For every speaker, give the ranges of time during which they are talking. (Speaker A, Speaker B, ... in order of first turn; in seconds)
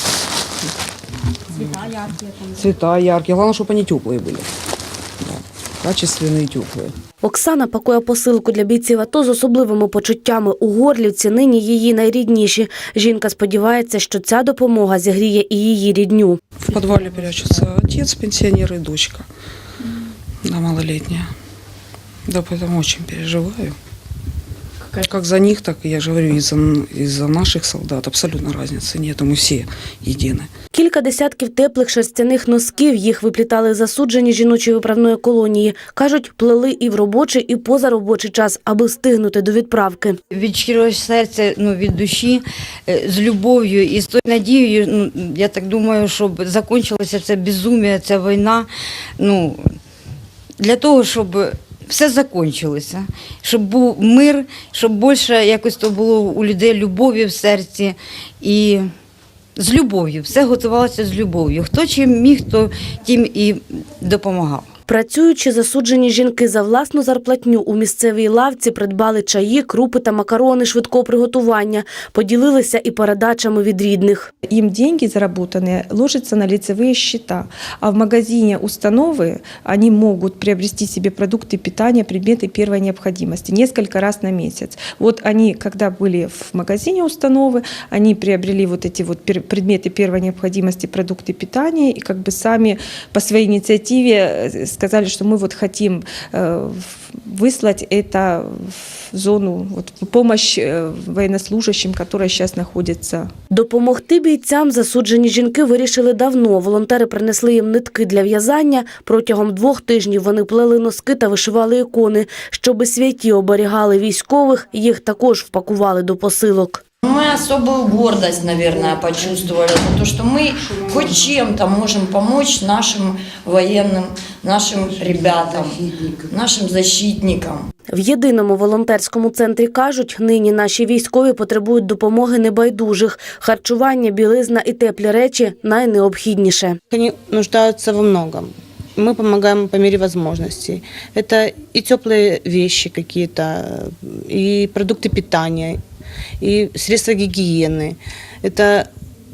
Speaker A: 1.5-4.5, 5.2-6.9, 16.7-19.3, 20.4-21.3, 22.3-23.8, 24.9-30.5
Speaker B: 7.2-16.4, 30.7-40.2, 64.9-74.3, 103.5-116.8, 127.9-136.8
Speaker C: 40.3-49.8, 50.6-58.9, 59.6-64.7
Speaker D: 74.5-103.3
Speaker E: 117.0-127.7
Speaker F: 136.9-145.8, 146.4-148.9